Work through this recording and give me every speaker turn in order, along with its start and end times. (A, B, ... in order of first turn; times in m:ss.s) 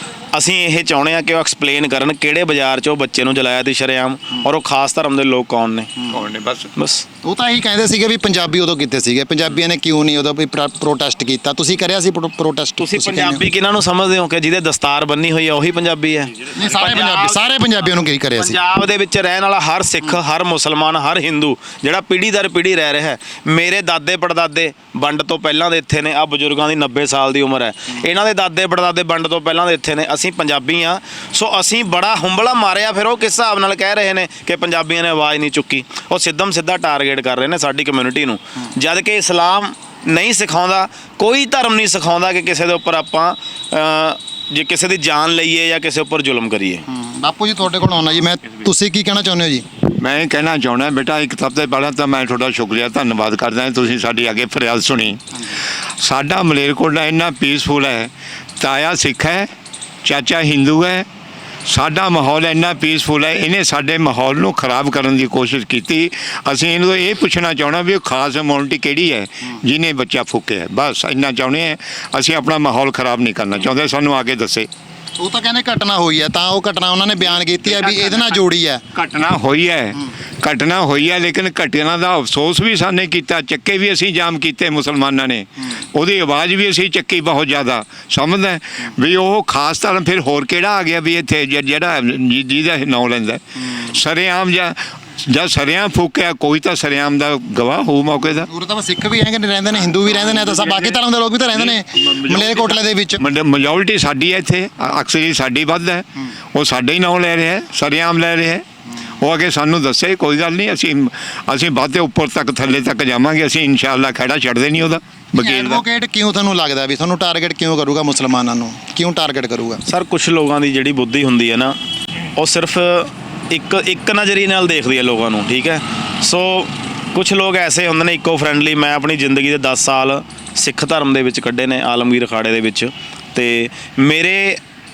0:00.3-0:05.9 A
0:06.1-0:06.7 B
0:06.8-0:07.0 A
0:07.2-0:13.4 C
0:12.8-0:17.3 A
0:16.5-0:18.6 C
0:18.4-0:46.8 A
0:46.9-0:49.6 C
0:50.0-0:55.2 B
0:56.0-0:59.5 B
1:00.0-1:01.0 B
1:01.7-1:14.7 B
1:15.2-1:18.8 C
1:17.7-1:18.4 B
1:18.9-1:38.5 B
1:38.5-1:43.2 C
1:40.2-1:40.9 B
1:41.5-1:48.6 B
1:49.2-1:55.8 B
1:55.4-1:59.8 C
1:59.8-2:01.8 A
2:02.4-2:14.6 A